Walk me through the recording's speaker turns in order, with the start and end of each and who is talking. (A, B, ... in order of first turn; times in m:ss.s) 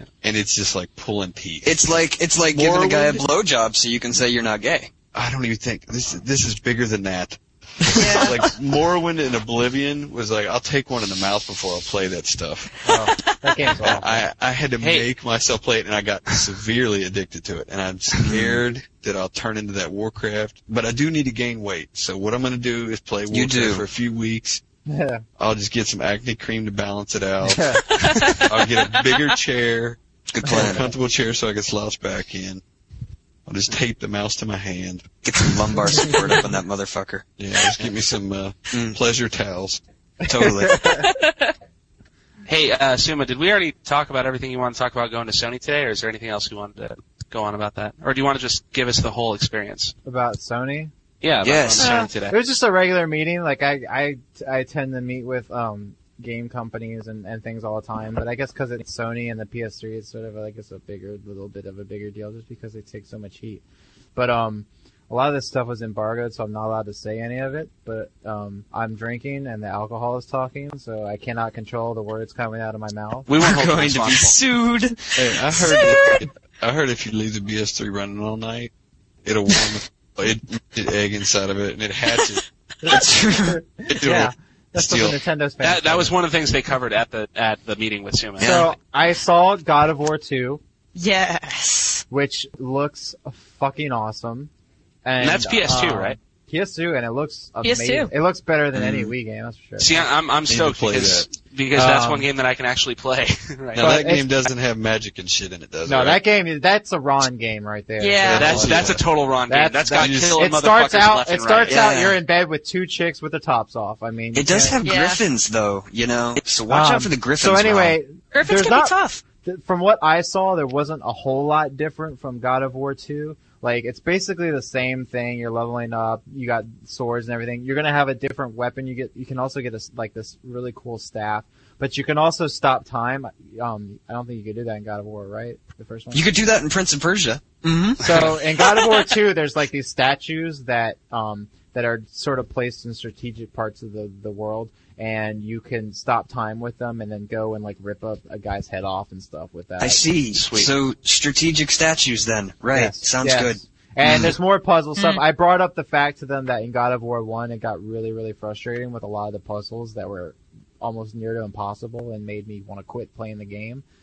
0:00.2-0:03.3 A
0:01.6-0:04.9 B
0:05.1-0:12.7 A
0:07.9-0:08.1 B
0:07.9-0:08.5 C
0:12.8-0:14.2 D
0:13.8-0:24.6 A
0:14.8-0:15.1 E
0:18.2-0:18.6 B
0:23.3-0:23.8 B
0:24.9-0:25.2 D
0:25.4-0:32.6 A
0:27.4-0:27.8 D
0:27.9-0:29.2 C
0:30.3-0:30.9 B
0:33.4-0:35.5 A
0:35.2-0:37.2 B
0:37.4-0:39.8 A
0:38.7-0:39.0 B
0:40.3-0:40.9 B
0:40.4-0:41.1 D
0:40.8-0:41.5 C
0:42.4-0:49.9 E
0:50.0-0:50.9 D
0:51.2-0:52.3 E
0:51.4-0:52.0 B
0:51.8-1:03.6 D
1:04.1-1:13.3 D
1:13.3-1:14.4 E
1:13.4-1:16.1 B
1:15.2-1:18.7 A
1:15.6-1:16.2 C
1:19.2-1:22.4 A
1:22.8-1:26.1 D
1:22.9-1:23.6 B
1:23.9-1:25.2 A
1:25.6-1:28.6 E
1:28.4-1:30.6 D
1:28.4-1:28.7 B
1:31.0-1:32.0 C
1:32.1-1:34.5 D
1:35.0-1:40.1 D
1:35.2-1:36.2 E
1:37.6-1:38.1 C
1:38.7-1:39.1 A
1:39.8-1:43.9 E
1:40.5-1:41.3 A
1:41.7-1:42.3 D
1:43.7-1:46.2 A
1:43.8-1:44.3 D
1:45.8-1:54.8 D
1:48.0-1:48.5 C
1:48.2-1:49.0 A
1:48.3-1:51.9 E
1:50.0-1:50.4 A
1:51.7-1:52.2 B
1:54.3-1:58.0 B
1:54.8-1:55.2 C
1:56.7-2:16.3 D
1:58.3-1:59.2 C
2:16.1-2:18.4 B
2:18.0-2:30.1 D
2:29.8-2:34.3 B
2:30.3-2:30.7 E
2:32.7-2:43.8 D
2:35.0-2:35.2 C